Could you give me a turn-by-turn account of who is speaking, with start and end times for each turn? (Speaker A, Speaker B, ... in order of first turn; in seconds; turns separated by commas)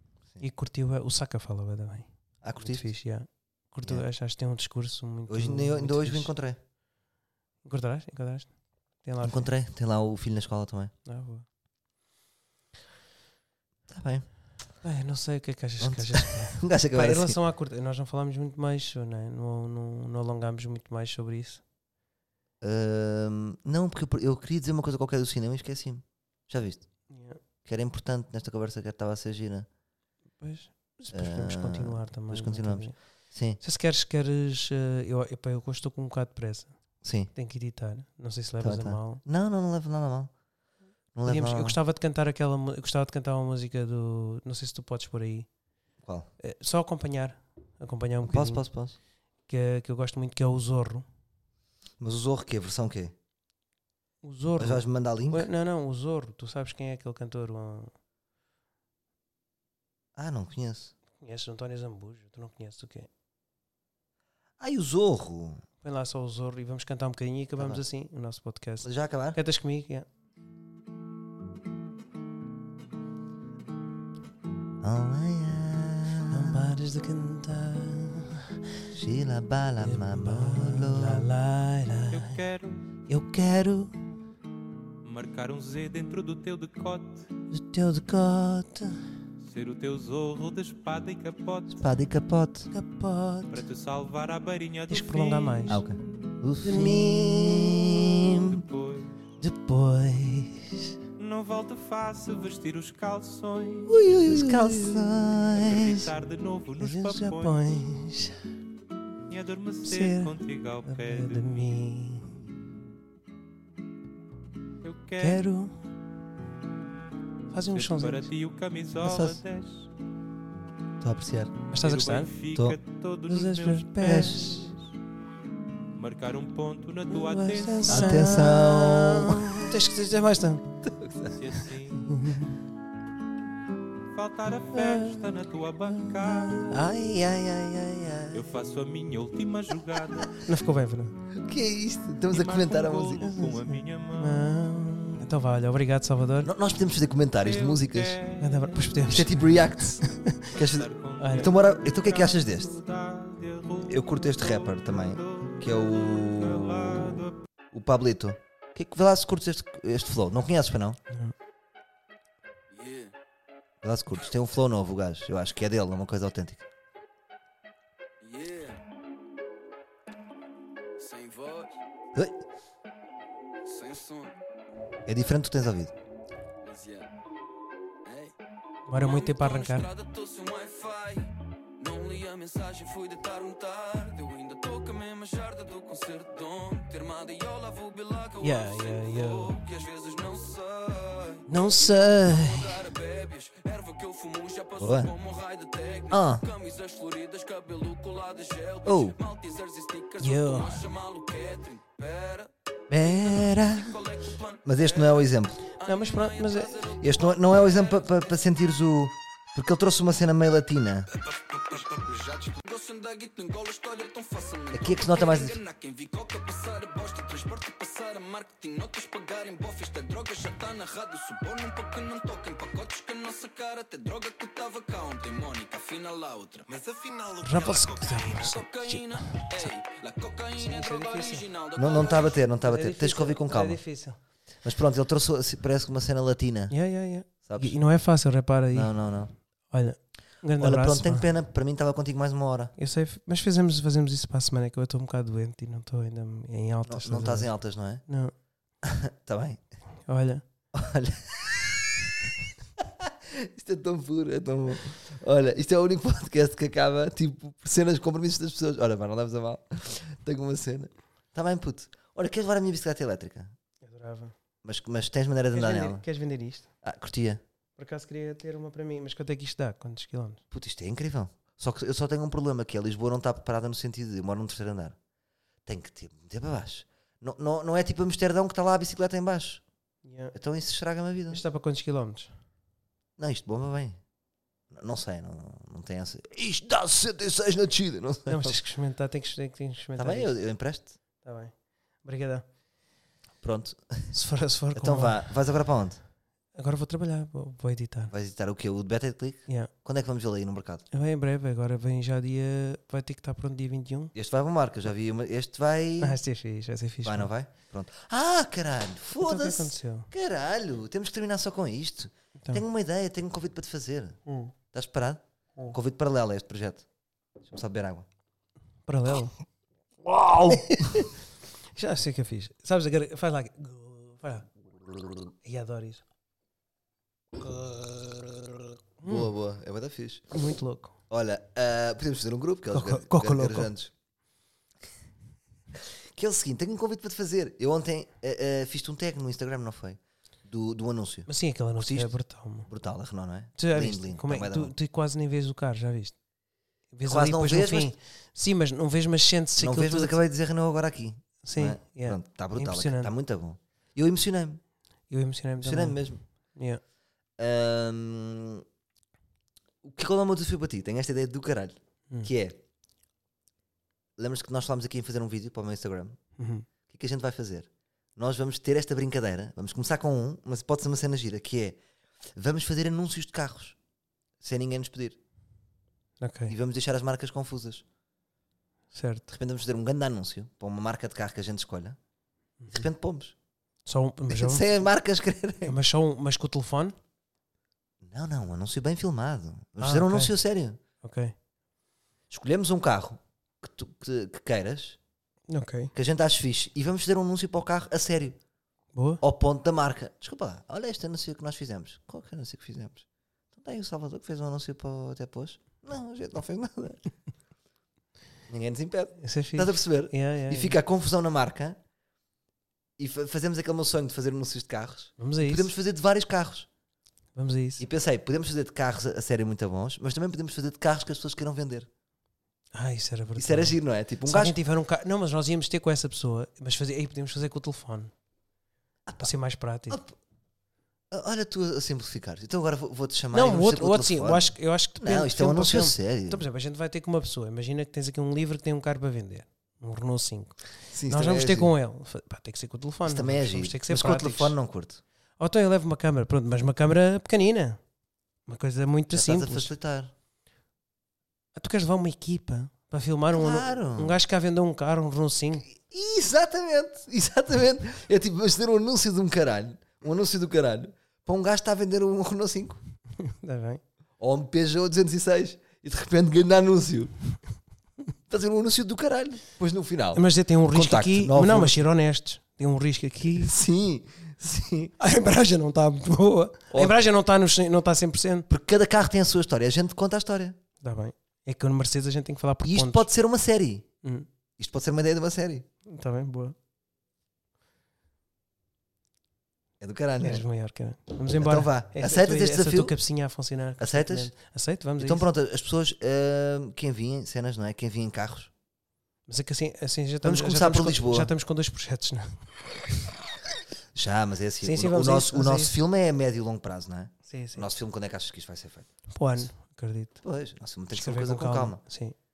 Speaker A: 0.4-6.3, Speaker B: 2.4-2.9, Speaker B: 5.3-6.6, Speaker A: 7.6-9.5, Speaker B: 9.2-10.9, Speaker A: 11.1-11.4, Speaker B: 13.9-14.3, Speaker A: 14.8-21.6, Speaker B: 15.8-17.4, Speaker B: 22.6-26.9, Speaker A: 27.1-27.4, Speaker B: 27.6-29.6, Speaker A: 30.4-33.0, Speaker B: 31.1-33.6, Speaker A: 33.6-36.7, Speaker B: 37.0-37.3, Speaker A: 37.3-39.2, Speaker B: 38.6-40.3, Speaker B: 41.1-41.8, Speaker A: 41.2-45.5, Speaker B: 46.0-46.3, Speaker A: 46.4-48.6, Speaker B: 48.2-49.0, Speaker A: 49.5-51.0, Speaker B: 52.0-53.1, Speaker A: 54.2-57.9, Speaker B: 54.6-55.5, Speaker B: 60.1-60.9, Speaker A: 61.2-63.1, Speaker B: 64.6-65.6, Speaker A: 65.8-70.0, Speaker B: 67.6-67.8, Speaker B: 68.8-69.4, Speaker B: 74.8-76.8, Speaker A: 76.3-78.5, Speaker B: 78.9-81.3, Speaker A: 79.8-82.4, Speaker C: 82.1-82.8, Speaker A: 83.1-84.0, Speaker C: 85.0-87.3, Speaker A: 87.5-89.0, Speaker C: 89.4-91.8, Speaker B: 91.7-92.7, Speaker A: 92.7-93.6, Speaker C: 93.5-95.7, Speaker A: 94.9-95.8, Speaker B: 95.7-98.6, Speaker A: 96.6-97.7, Speaker C: 98.2-99.1, Speaker A: 99.4-100.9, Speaker C: 101.2-104.0, Speaker B: 103.9-106.1, Speaker A: 104.3-105.0, Speaker C: 105.5-107.6, Speaker A: 106.8-108.3, Speaker C: 109.3-111.7, Speaker A: 109.8-110.3, Speaker A: 110.8-112.3, Speaker C: 114.8-115.4, Speaker A: 115.2-115.8, Speaker A: 117.5-118.3, Speaker C: 117.7-119.9, Speaker B: 119.0-119.4, Speaker B: 121.0-121.6, Speaker A: 121.7-122.3, Speaker C: 121.8-124.8, Speaker A: 123.3-124.7, Speaker B: 124.0-124.5, Speaker C: 126.0-128.5, Speaker A: 127.1-130.7, Speaker B: 127.9-129.8, Speaker B: 130.8-131.4, Speaker C: 131.3-132.2, Speaker A: 132.0-132.6, Speaker C: 134.1-136.8, Speaker A: 134.7-135.2, Speaker A: 136.5-137.7, Speaker B: 137.1-138.5, Speaker C: 138.3-140.4, Speaker A: 140.4-141.2, Speaker B: 141.3-143.2, Speaker C: 142.3-144.5, Speaker A: 143.2-146.5, Speaker B: 146.4-148.2, Speaker C: 147.4-148.8, Speaker A: 148.4-150.5, Speaker B: 149.1-150.0, Speaker B: 150.5-152.8, Speaker C: 150.5-157.4, Speaker A: 151.2-151.5, Speaker B: 153.9-157.0, Speaker B: 157.7-161.0, Speaker D: 162.7-163.1, Speaker B: 163.8-166.7, Speaker D: 168.2-168.8, Speaker D: 171.0-171.8, Speaker D: 173.6-174.4, Speaker B: 175.1-175.9, Speaker D: 176.6-177.1, Speaker D: 178.0-178.3, Speaker A: 178.9-179.9, Speaker D: 178.9-208.0, Speaker A: 188.4-189.6, Speaker A: 191.5-192.9, Speaker B: 194.8-195.1, Speaker B: 196.1-196.4, Speaker B: 198.8-199.2, Speaker A: 200.2-200.8, Speaker B: 202.9-204.0, Speaker B: 204.6-205.6, Speaker A: 205.8-206.9, Speaker B: 207.0-211.1, Speaker D: 211.2-232.4, Speaker B: 214.7-215.6, Speaker A: 227.4-229.7, Speaker A: 230.6-231.5, Speaker B: 231.8-233.8, Speaker A: 232.6-234.2, Speaker B: 234.6-236.7, Speaker A: 236.7-238.9, Speaker B: 237.4-237.8, Speaker B: 238.7-239.3, Speaker A: 239.7-241.3, Speaker B: 240.6-242.7, Speaker A: 242.8-247.5, Speaker B: 246.8-248.0, Speaker A: 248.1-248.3, Speaker B: 248.8-249.6, Speaker A: 250.1-250.4, Speaker B: 250.7-263.5, Speaker A: 263.8-264.3, Speaker B: 264.6-266.0, Speaker A: 265.5-266.7, Speaker B: 266.8-267.4, Speaker A: 267.8-270.4, Speaker B: 270.5-275.0, Speaker B: 275.6-279.6, Speaker A: 280.0-280.3, Speaker B: 280.3-281.4, Speaker A: 281.3-282.3, Speaker B: 283.2-284.0, Speaker B: 284.7-288.6, Speaker A: 288.3-290.4, Speaker B: 289.9-290.9, Speaker A: 291.2-292.4, Speaker B: 293.4-294.1, Speaker A: 294.1-295.2, Speaker B: 294.7-296.0, Speaker A: 296.5-298.1, Speaker B: 298.1-300.8, Speaker A: 300.9-304.1, Speaker B: 304.1-306.2, Speaker A: 306.0-307.3, Speaker B: 307.0-314.2, Speaker A: 309.2-310.1, Speaker A: 314.2-314.5, Speaker B: 314.7-316.8, Speaker B: 317.4-318.1, Speaker A: 318.9-319.4, Speaker B: 320.0-321.0, Speaker A: 320.4-321.1, Speaker A: 321.7-324.5, Speaker A: 325.4-326.0, Speaker A: 327.4-329.3, Speaker B: 329.0-330.3, Speaker A: 330.3-330.9, Speaker B: 331.1-333.9, Speaker A: 332.7-333.7, Speaker B: 336.1-342.1, Speaker A: 341.3-342.7, Speaker B: 342.7-344.7, Speaker A: 343.6-346.1, Speaker A: 346.9-350.2, Speaker B: 347.0-347.9, Speaker B: 349.6-354.6, Speaker A: 351.4-353.1, Speaker A: 355.1-356.8, Speaker B: 355.6-356.2, Speaker B: 357.4-358.6, Speaker B: 359.8-362.6, Speaker B: 364.2-366.2, Speaker A: 366.4-366.7, Speaker B: 366.9-371.8, Speaker B: 372.3-373.8, Speaker B: 374.4-375.2, Speaker A: 376.2-376.5, Speaker B: 376.5-377.8, Speaker A: 378.9-379.3, Speaker B: 379.3-382.0, Speaker B: 382.7-383.3, Speaker A: 383.9-384.7, Speaker B: 384.3-385.8, Speaker A: 385.6-386.9, Speaker B: 388.0-390.8, Speaker A: 389.8-390.3, Speaker A: 391.0-391.3, Speaker B: 392.3-395.0, Speaker A: 395.5-395.9, Speaker B: 395.9-398.4, Speaker A: 398.9-399.2, Speaker B: 399.2-403.0, Speaker B: 403.5-407.1, Speaker B: 408.5-411.8, Speaker A: 409.2-410.8, Speaker B: 413.0-416.7, Speaker A: 415.2-415.7, Speaker A: 417.3-417.8, Speaker B: 417.8-421.9, Speaker A: 422.7-423.7, Speaker B: 423.4-424.6, Speaker A: 424.2-428.1, Speaker B: 429.1-429.3, Speaker A: 429.2-430.0, Speaker B: 429.9-430.1, Speaker B: 431.1-436.4, Speaker A: 433.3-444.5, Speaker B: 440.9-441.7, Speaker B: 443.0-445.0, Speaker A: 445.4-447.8, Speaker A: 448.5-449.7, Speaker B: 449.1-450.1, Speaker A: 451.6-455.6, Speaker B: 453.3-454.2, Speaker B: 455.6-462.8, Speaker A: 463.2-463.8, Speaker B: 464.2-467.1, Speaker B: 468.3-471.8, Speaker A: 470.1-473.5, Speaker B: 473.2-474.9, Speaker A: 475.0-478.5, Speaker B: 478.5-480.6, Speaker A: 480.8-483.1, Speaker B: 482.6-483.9, Speaker B: 484.6-485.6, Speaker A: 485.9-486.5, Speaker B: 489.8-490.4, Speaker A: 490.2-495.2, Speaker B: 491.3-492.9, Speaker B: 493.8-494.3, Speaker B: 495.0-498.5, Speaker A: 499.3-502.5, Speaker B: 500.2-501.3, Speaker B: 503.9-509.4, Speaker A: 504.6-505.8, Speaker A: 507.2-507.7, Speaker A: 509.1-510.2, Speaker B: 510.2-511.8, Speaker A: 510.9-512.1